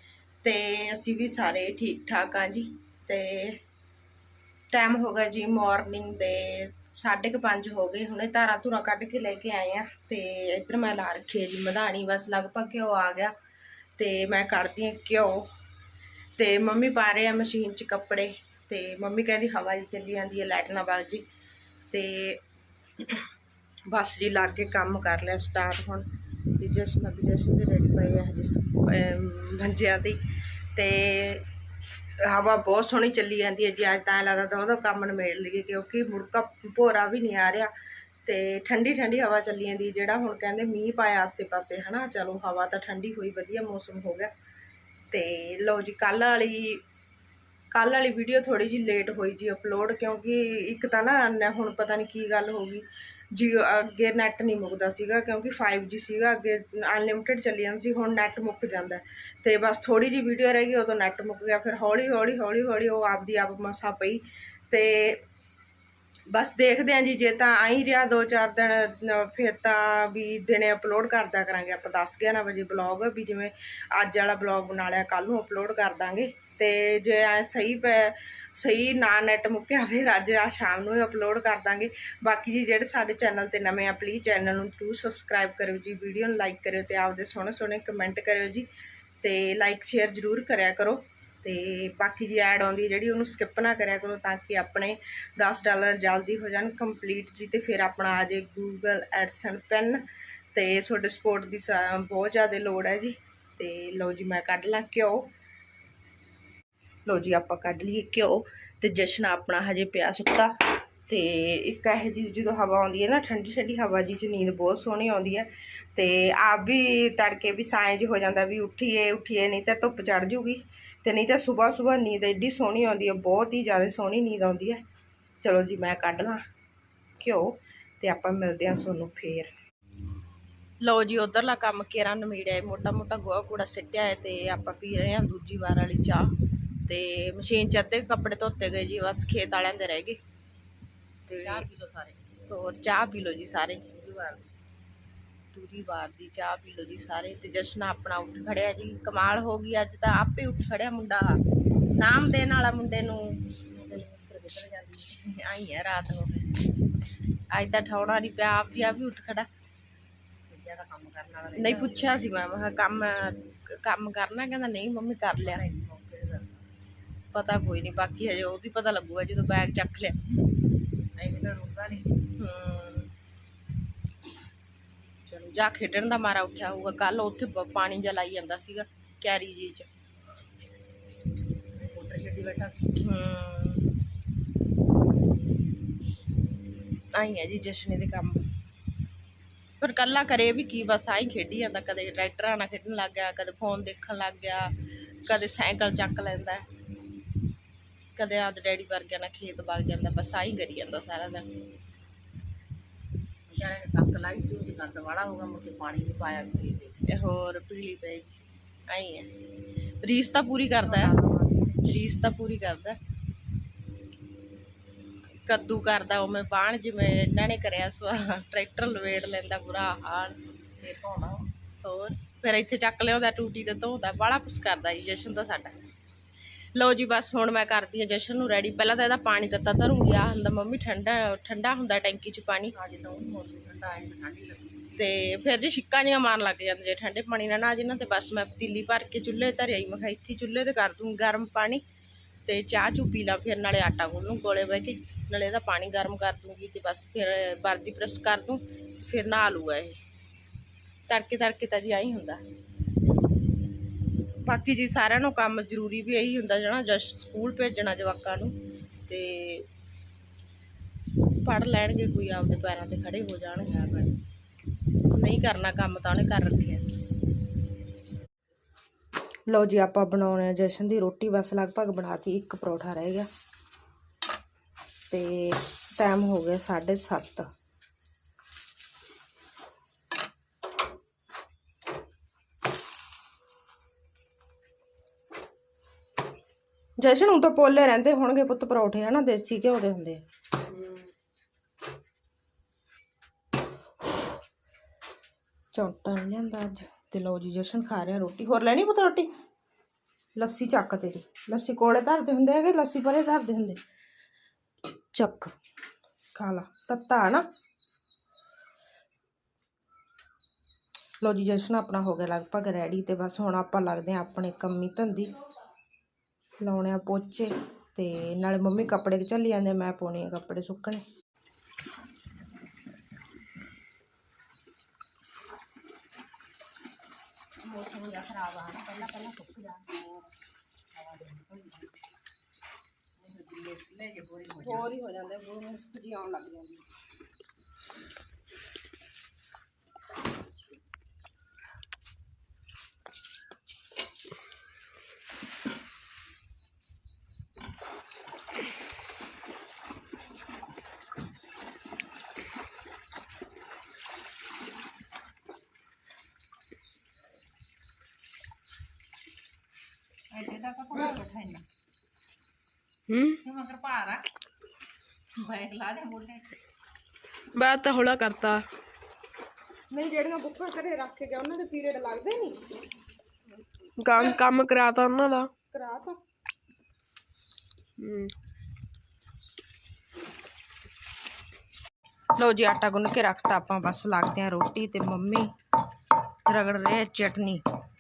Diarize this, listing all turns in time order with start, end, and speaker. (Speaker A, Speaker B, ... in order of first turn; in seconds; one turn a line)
Speaker A: 0.4-3.6
Speaker A: 4.7-13.3
Speaker A: 14.0-15.5
Speaker A: 16.4-21.2
Speaker A: 21.9-22.4
Speaker A: 23.9-30.2
Speaker A: 30.7-31.5
Speaker A: 32.2-37.7
Speaker A: 38.3-44.3
Speaker A: 45.1-46.8
Speaker A: 47.7-65.2
Speaker A: 66.3-88.7
Speaker A: 89.2-105.3
Speaker A: 107.1-110.5
Speaker A: 111.0-124.8
Speaker A: 125.4-126.4
Speaker A: 127.2-129.5
Speaker A: 130.8-136.3
Speaker A: 136.8-140.2
Speaker A: 141.3-141.7
Speaker B: 141.3-142.2
Speaker A: 142.5-143.9
Speaker B: 144.0-144.4
Speaker A: 145.5-151.4
Speaker A: 151.9-153.6
Speaker B: 153.9-155.0
Speaker A: 155.0-156.6
Speaker A: 157.5-159.5
Speaker B: 160.5-162.2
Speaker A: 161.6-165.6
Speaker B: 165.4-166.5
Speaker A: 167.3-170.2
Speaker B: 171.2-172.3
Speaker A: 172.3-173.1
Speaker A: 175.3-179.9
Speaker B: 181.8-183.0
Speaker A: 183.0-183.9
Speaker A: 187.1-188.5
Speaker A: 189.8-194.7
Speaker A: 195.3-196.7
Speaker A: 198.2-201.5
Speaker B: 203.5-207.0
Speaker A: 207.1-208.3
Speaker A: 208.9-209.3
Speaker A: 210.0-211.1
Speaker B: 210.8-212.0
Speaker A: 211.8-213.0
Speaker A: 215.4-220.4
Speaker B: 220.8-221.5
Speaker A: 221.8-225.8
Speaker A: 226.8-232.8
Speaker B: 232.8-234.8
Speaker A: 234.9-241.8
Speaker A: 242.5-250.0
Speaker A: 251.1-252.4
Speaker A: 254.4-259.7
Speaker A: 261.4-264.1
Speaker A: 265.1-266.9
Speaker A: 269.5-273.3
Speaker A: 275.1-277.5
Speaker A: 287.0-290.2
Speaker A: 295.7-299.3
Speaker A: 300.4-303.8
Speaker A: 305.1-305.5
Speaker A: 306.4-307.4
Speaker A: 311.2-315.3
Speaker A: 316.6-321.0
Speaker A: 327.6-329.9
Speaker B: 330.9-331.9
Speaker B: 333.2-334.9
Speaker A: 334.6-336.8
Speaker B: 360.3-361.6
Speaker C: 363.1-363.4
Speaker B: 363.4-364.2
Speaker B: 365.4-366.6
Speaker C: 367.6-368.7
Speaker A: 369.9-372.6
Speaker C: 374.0-375.5
Speaker A: 375.7-376.2
Speaker C: 378.0-378.3
Speaker A: 382.4-385.5
Speaker A: 386.5-387.6